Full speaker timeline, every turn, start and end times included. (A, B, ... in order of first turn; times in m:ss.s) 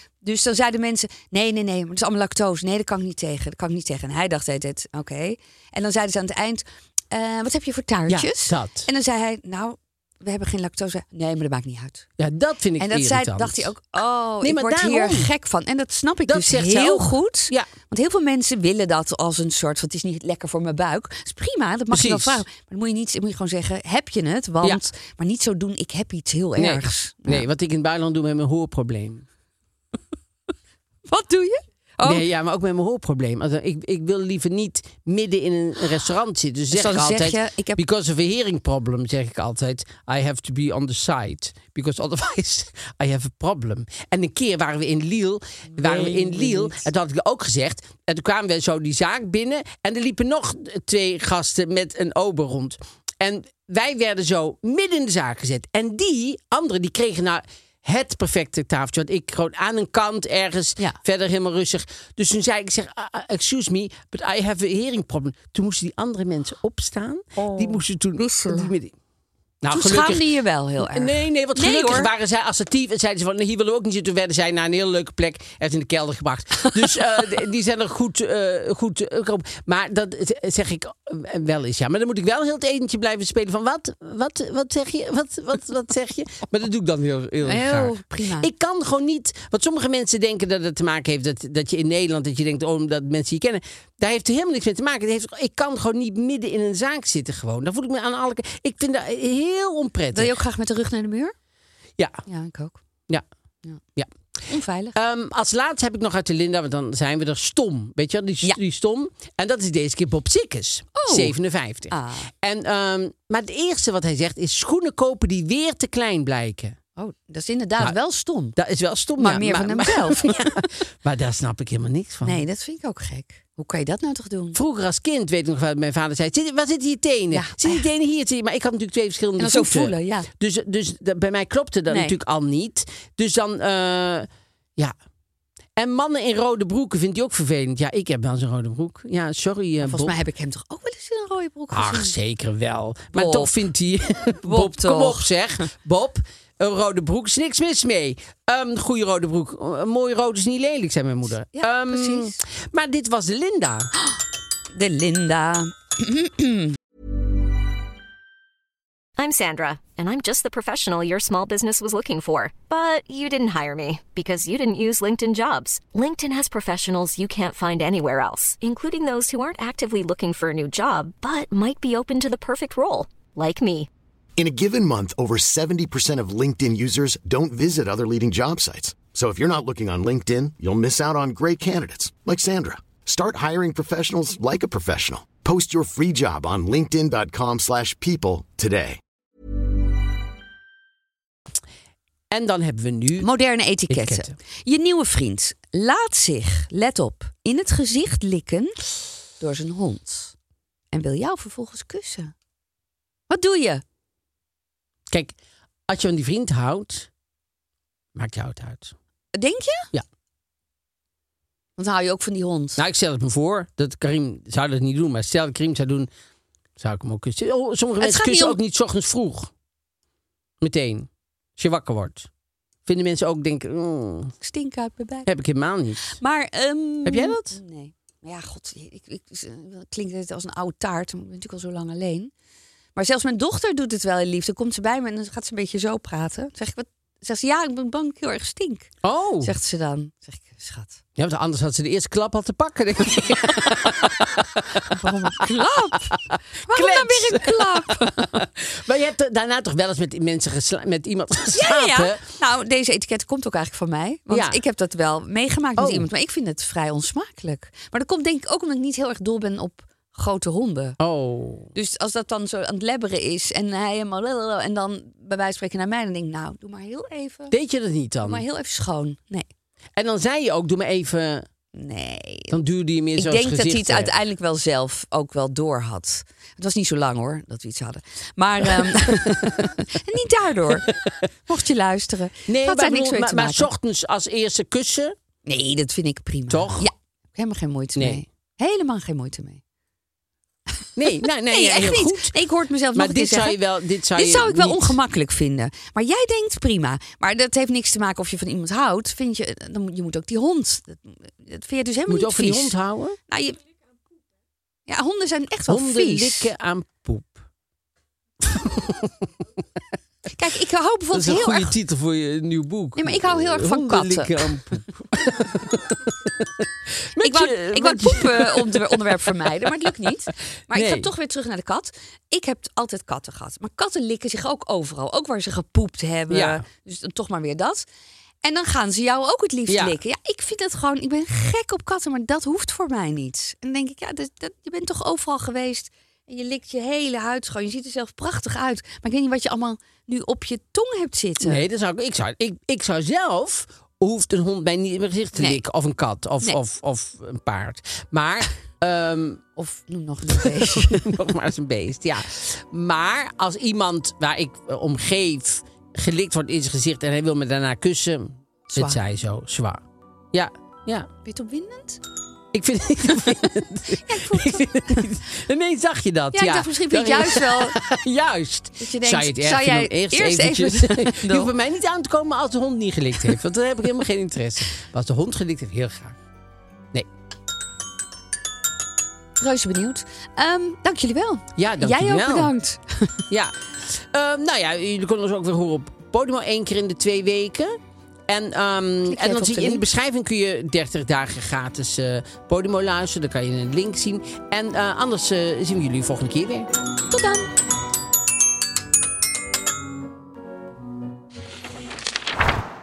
0:00.2-0:12.0 A
0:08.1-0:08.9 B
0:12.2-0:13.7 B
0:12.8-0:27.4 A
0:14.4-0:15.3 B
0:16.3-0:17.7 B
0:21.9-0:22.4 B
0:26.6-0:29.2 B
0:31.1-0:32.2 A
0:32.0-1:08.9 B
0:36.7-0:37.8 A
0:45.7-0:46.9 A
1:07.4-1:08.7 A
1:09.6-1:10.3 B
1:09.7-1:12.1 A
1:10.8-1:40.3 B
1:27.4-1:28.5 A
1:40.1-1:41.3 A
1:42.0-1:42.2 B
1:42.3-1:42.8 A
1:44.5-1:44.9 A
1:44.9-1:56.8 B
1:50.9-1:51.3 A
1:51.9-1:52.3 A
1:57.0-1:58.6 A
1:58.6-2:02.4 B
1:59.2-2:00.6 A
2:02.2-2:04.6 A
2:04.5-2:14.9 B
2:07.3-2:07.8 A
2:09.4-2:10.3 A
2:11.9-2:12.1 A
2:15.8-2:20.1 B
2:19.8-2:22.2 A
2:21.7-2:33.9 B
2:23.1-2:23.5 A
2:24.4-2:25.3 A
2:31.5-2:32.3 A
2:34.7-2:36.8 A
2:39.2-2:53.9 C
2:54.4-3:09.0 D
3:12.3-3:13.3 B
3:13.2-3:18.8 A
3:13.9-3:14.3 B
3:19.4-3:20.3 A
3:20.9-3:22.3 A
3:23.3-3:23.8 A
3:25.9-3:27.1 B
3:28.1-3:28.9 B
3:29.3-3:29.9 A
3:31.8-3:32.8 A
3:32.8-3:36.1 B
3:36.8-3:39.5 B
3:38.0-3:38.6 A
3:40.6-3:42.3 B
3:42.8-3:44.3 B
3:44.4-3:45.3 A
3:45.2-3:46.2 B
3:46.1-3:52.3 A
3:47.0-3:47.6 B
3:52.9-3:58.9 A
3:59.0-3:59.5 B
3:59.4-4:01.0 A
4:01.2-4:04.9 B
4:04.8-4:08.4 A
4:06.1-4:12.2 B
4:11.5-4:21.0 A
4:14.3-4:14.6 B
4:15.8-4:16.0 B
4:21.0-4:21.7 B
4:21.7-4:27.5 A
4:27.5-4:28.4 B
4:28.2-4:29.5 A
4:30.0-4:31.5 B
4:31.7-4:32.6 A
4:32.5-4:34.1 B
4:33.2-4:40.9 A
4:38.9-4:39.3 B
4:41.4-4:43.7 A
4:42.5-4:45.2 B
4:45.4-4:49.6 A
4:46.5-4:46.9 B
4:51.0-4:52.3 B
4:51.5-4:53.6 A
4:52.9-4:55.0 B
4:54.1-5:02.8 A
5:02.1-5:03.2 B
5:03.3-5:03.6 A
5:04.9-5:06.5 A
5:05.7-5:07.4 B
5:08.4-5:09.1 B
5:10.3-5:11.7 A
5:11.1-5:16.6 B
5:13.0-5:14.5 A
5:17.1-5:19.3 B
5:17.2-5:27.8 A
5:20.7-5:21.1 B
5:26.3-5:26.6 B
5:28.4-5:41.6 A
5:29.7-5:30.0 B
5:41.4-5:49.4 B
5:49.6-5:51.1 A
5:50.3-6:01.1 B
5:58.7-5:59.0 A
6:01.2-6:02.0 A
6:02.5-6:16.2 B
6:03.9-6:05.1 A
6:06.3-6:07.8 A
6:08.8-6:11.5 A
6:19.4-6:23.2 A
6:21.6-6:22.5 B
6:23.3-6:27.8 B
6:28.3-6:36.7 B
6:29.1-6:29.8 A
6:37.1-6:37.5 A